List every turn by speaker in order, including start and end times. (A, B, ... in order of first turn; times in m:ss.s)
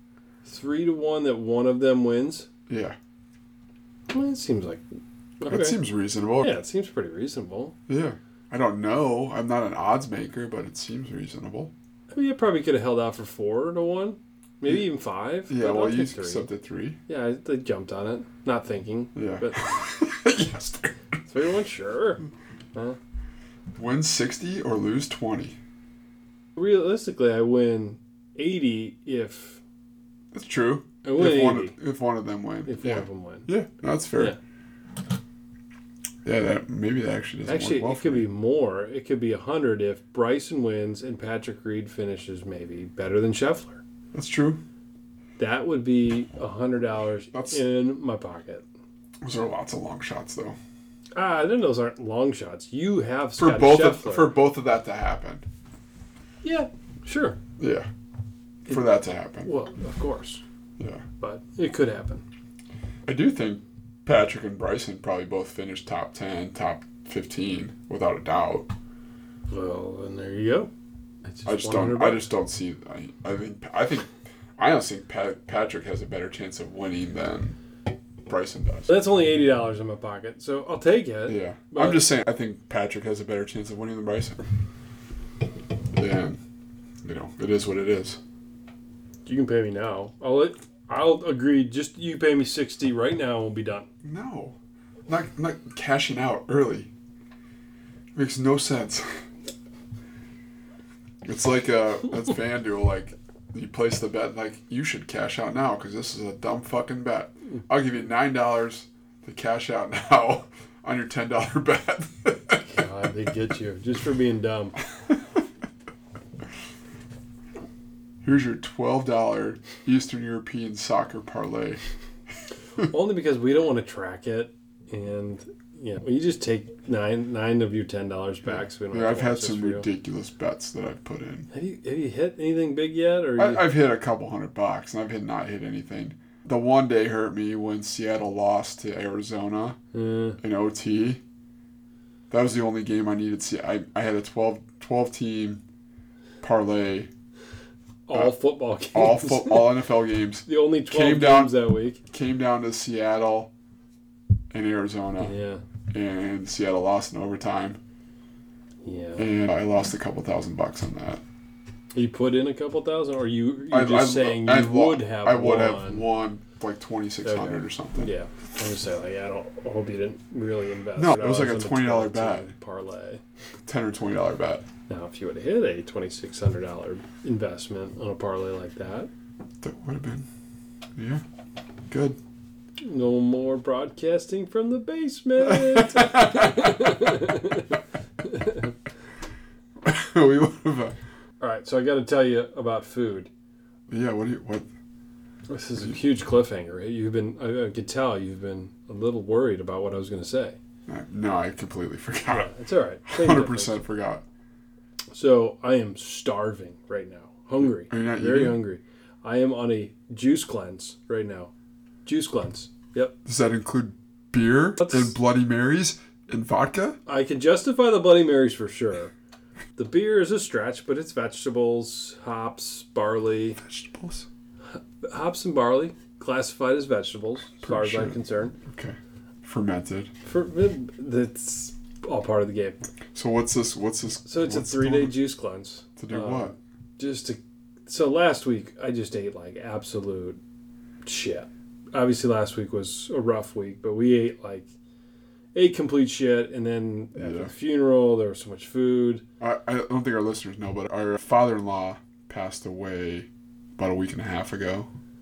0:00.4-0:02.5 A
0:02.7-0:03.0 B
0:04.1-0:04.8 A
0:05.4-0:05.8 A
0:05.5-0:06.5 B
0:06.4-0:07.8 A
0:07.9-0:11.7 B
0:12.1-0:16.5 A
0:15.5-0:17.0 B
0:17.1-0:19.6 A
0:19.1-0:20.9 B
0:21.3-0:22.2 A
0:23.8-0:25.6 B
0:26.6-0:29.6 A
0:30.3-0:34.3 B
0:31.0-0:31.8 A
0:32.6-0:33.5 A
0:36.2-0:38.3 B
0:37.4-0:43.8 A
0:44.1-0:44.6 B
0:45.4-0:48.6 A
0:47.3-0:47.6 B
0:49.2-0:50.6 B
0:51.2-0:54.3 A
0:53.4-0:55.4 B
0:56.4-0:57.4 A
0:57.6-0:57.9 B
0:58.6-0:59.5 B
0:59.4-1:00.4 A
1:01.2-1:02.2 A
1:03.0-1:08.7 B
1:09.5-1:10.7 A
1:11.3-1:12.3 A
1:11.4-1:17.6 B
1:18.2-1:18.9 B
1:18.9-1:22.0 A
1:21.3-1:24.4 B
1:25.9-1:26.4 B
1:27.0-1:28.2 B
1:29.2-1:33.9 A
1:34.0-1:34.6 B
1:35.1-1:36.9 B
1:38.1-1:39.2 B
1:41.2-1:52.6 B
1:52.6-1:54.8 A
1:58.2-2:01.8 B
2:02.8-2:09.9 A
2:08.9-2:11.5 B
2:11.5-2:13.6 A
2:13.4-2:19.8 B
2:19.9-2:20.4 A
2:20.4-2:21.2 B
2:22.3-2:25.6 B
2:26.4-2:27.1 B
2:28.1-2:29.7 A
2:28.9-2:31.5 B
2:30.4-2:32.0 A
2:32.1-2:33.5 B
2:34.5-2:35.3 B
2:35.2-2:35.6 A
2:35.9-2:37.8 B
2:38.8-2:39.2 A
2:39.2-2:41.2 B
2:41.9-2:46.0 A
2:43.7-2:48.1 B
2:47.2-2:53.2 A
2:51.0-2:52.5 B
2:53.6-2:54.6 B
2:54.9-2:59.1 A
2:59.6-3:00.3 B
3:01.0-3:01.2 B
3:01.9-3:02.2 B
3:02.8-3:08.7 A
3:05.4-3:07.1 B
3:09.8-3:11.0 B
3:11.4-3:13.3 A
3:13.9-3:14.7 B
3:15.5-3:20.6 A
3:20.9-3:22.5 B
3:22.3-3:23.8 A
3:23.0-3:24.2 B
3:25.1-3:31.5 A
3:27.7-3:28.6 B
3:32.0-3:33.1 A
3:33.2-3:37.0 B
3:34.8-3:35.1 A
3:37.0-3:39.1 A
3:39.8-3:43.6 A
3:43.6-3:44.3 B
3:45.0-3:48.6 A
3:47.6-3:50.1 B
3:50.2-3:52.8 A
3:53.1-3:55.1 B
3:54.2-4:00.4 A
3:56.0-3:56.5 B
4:01.0-4:04.7 A
4:05.5-4:09.2 A
4:07.2-4:07.5 B
4:09.4-4:14.9 B